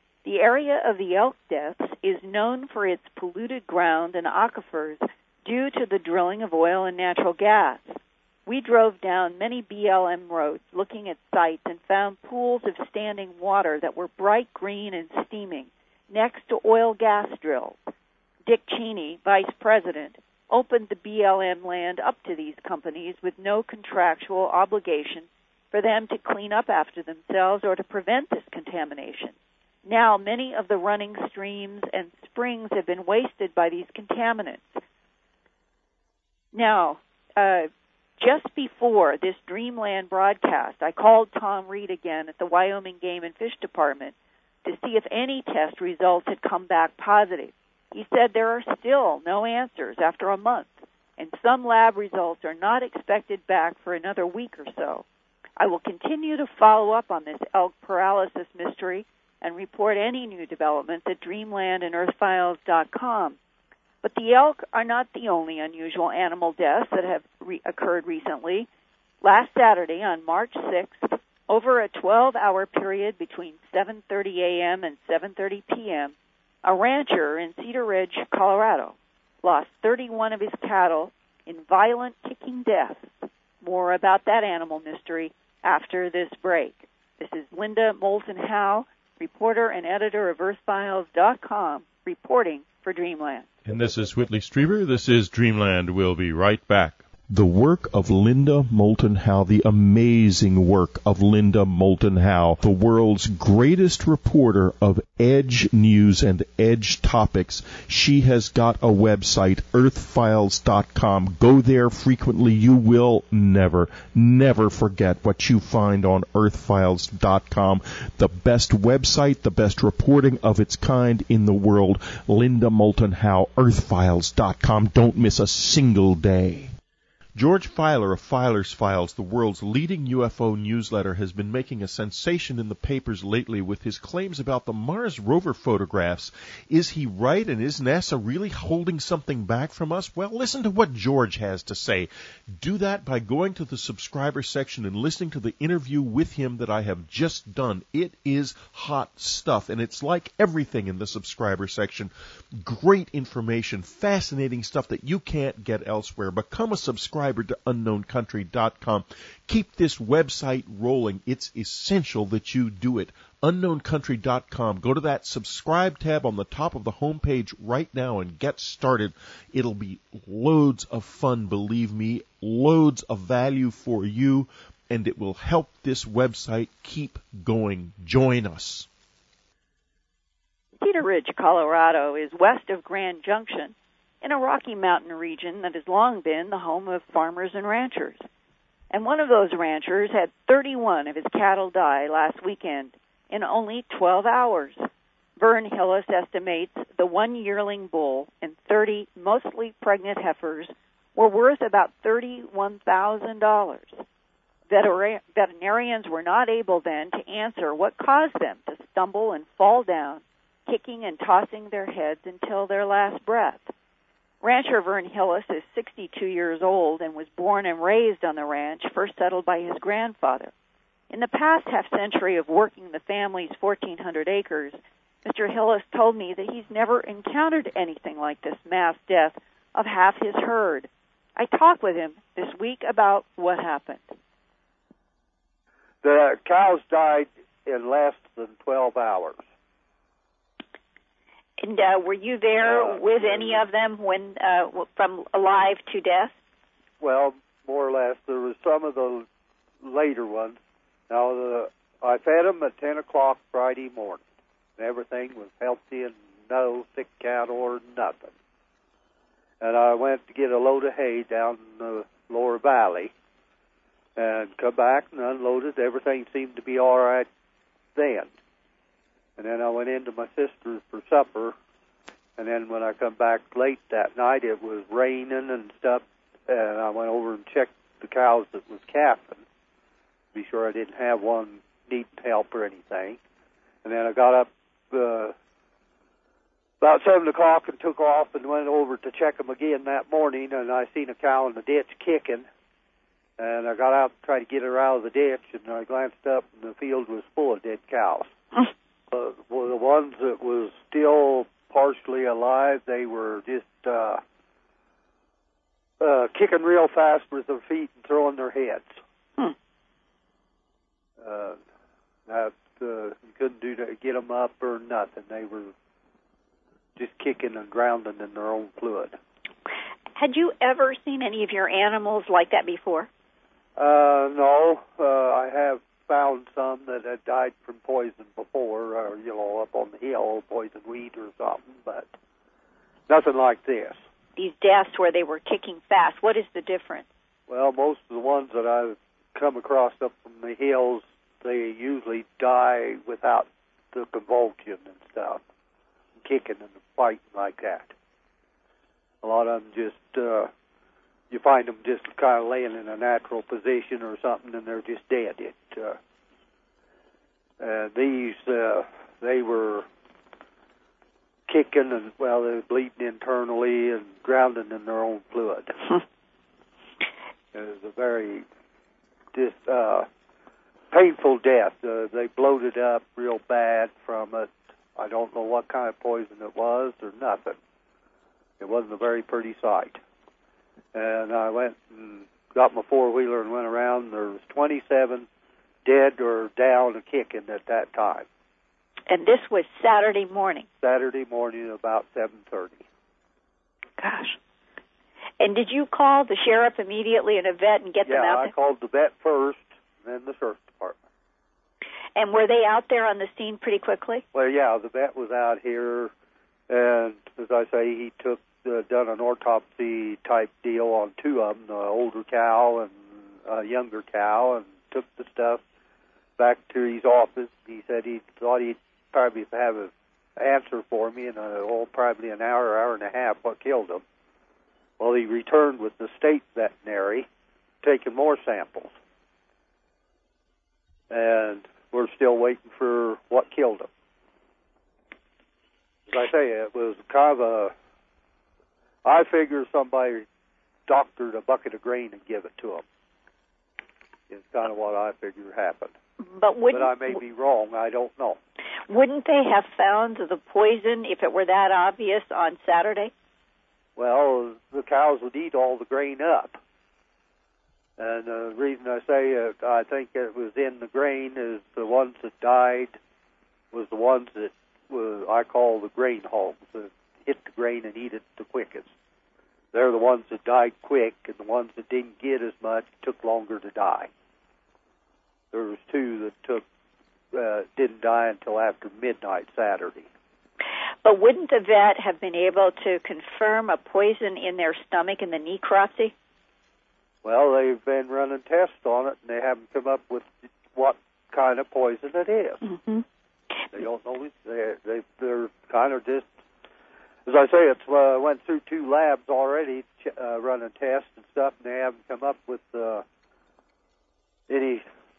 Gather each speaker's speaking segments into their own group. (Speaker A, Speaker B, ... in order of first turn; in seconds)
Speaker A: 0.2-17.9, 18.5-29.3, 29.9-34.8, 36.5-44.1, 44.6-55.0, 55.6-63.4, 64.0-68.7, 69.2-93.5, 180.8-188.2, 188.9-194.9, 195.4-204.0, 204.7-213.7, 214.4-220.5, 221.1-234.1
Speaker B: 93.7-126.7, 127.4-178.9
Speaker C: 236.0-239.4, 242.6-243.6, 247.0-249.3, 249.8-250.6, 251.1-254.2, 254.8-258.3, 259.6-263.1, 264.2-267.3, 267.9-268.3, 269.4-271.6, 272.4-279.4, 280.3-283.2, 283.8-285.4, 286.8-292.5, 293.4-298.3, 299.1-304.2, 306.0-308.9, 311.2-311.6, 312.3-315.7, 317.0-319.2, 323.8-332.1, 333.1-334.0, 337.5-345.4, 346.2-347.9, 349.2-350.5, 351.3-356.0, 357.6-359.9, 361.5-366.0, 367.5-368.4, 369.3-370.1, 370.9-377.6, 378.6-380.0, 380.9-385.3, 385.8-388.3, 390.8-392.8, 398.1-401.0, 404.3-406.1, 406.7-415.6, 416.4-424.0, 425.0-427.3, 427.8-428.9, 431.1-433.9, 436.1-437.7, 439.0-440.3, 440.9-442.8, 444.3-445.9, 446.7-448.4, 454.0-456.6, 458.0-463.0, 463.7-468.9, 469.7-474.1, 475.5-476.6, 477.3-480.1, 487.2-492.7, 493.7-496.3, 497.3-503.1, 504.5-504.9
Speaker D: 241.6-246.3, 320.1-323.1, 334.4-337.1, 389.1-390.7, 394.0-394.4, 395.4-398.5, 402.1-404.2, 446.2-447.2, 448.9-453.1, 481.0-486.1, 492.6-493.0